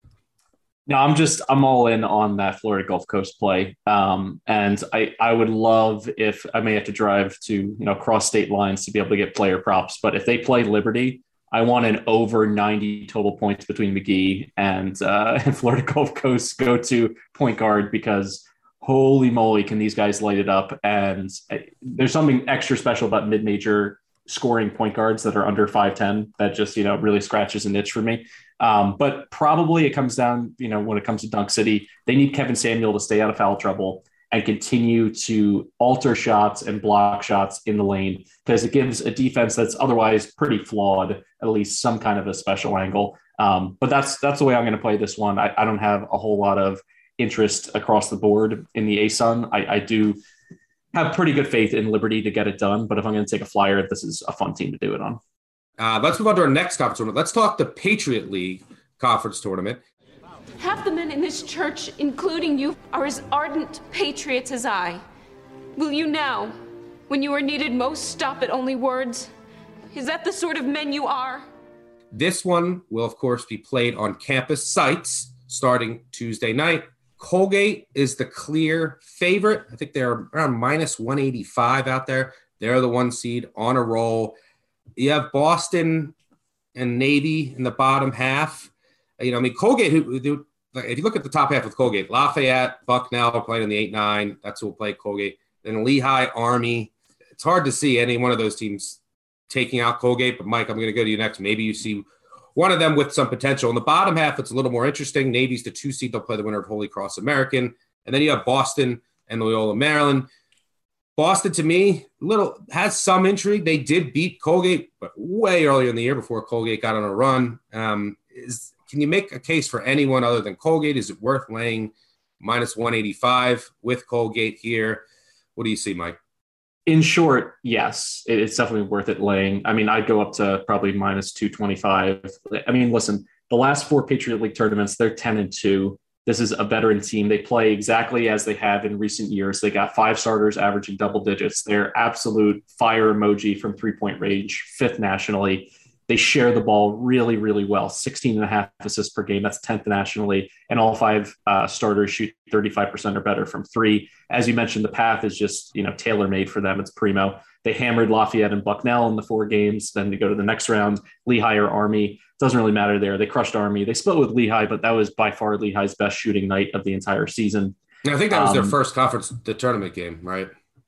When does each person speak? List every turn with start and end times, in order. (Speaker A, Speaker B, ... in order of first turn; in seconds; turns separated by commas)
Speaker A: 0.9-50.2, Speaker A: 50.9-55.2, Speaker B: 55.8-59.8, Speaker C: 60.6-65.0, Speaker C: 65.8-69.3, Speaker C: 69.9-71.5, Speaker B: 72.1-84.4, Speaker B: 85.0-86.1, Speaker B: 86.8-110.3, Speaker B: 111.2-125.0, Speaker B: 125.6-126.2, Speaker A: 126.9-167.8, Speaker B: 168.0-170.5, Speaker A: 168.3-168.7